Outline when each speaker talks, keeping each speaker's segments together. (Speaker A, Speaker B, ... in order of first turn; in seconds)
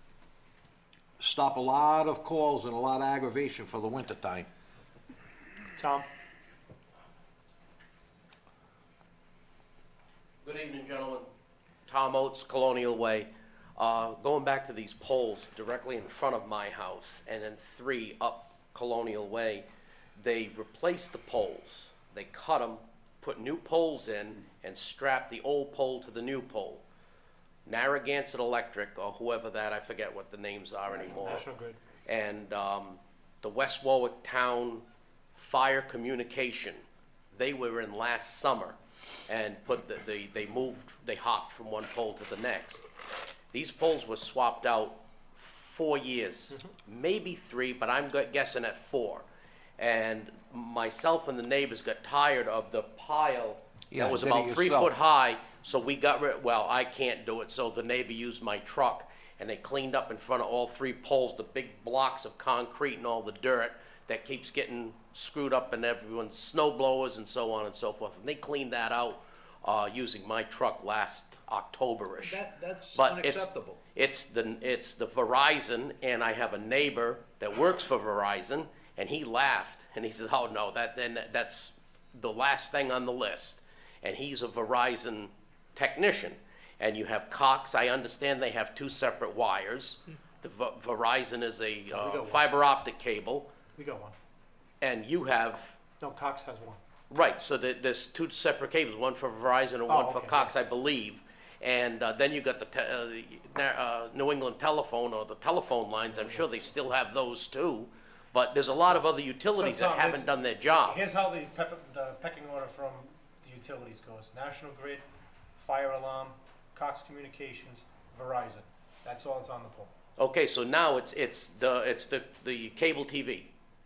Speaker A: 1.2-4.5, 53.9-55.0, 72.2-73.8
Speaker B: 5.7-6.1, 31.2-31.8, 91.9-92.5, 93.7-94.1, 96.0-96.8, 99.9-100.5, 106.1-106.6, 109.5-110.3, 110.8-115.0, 115.5-119.9
Speaker C: 10.4-11.3, 11.9-26.8, 27.6-31.5, 32.0-38.8, 39.3-42.9, 43.5-49.2, 49.8-72.4, 72.9-93.5, 94.8-95.8, 97.1-111.0, 120.2-123.5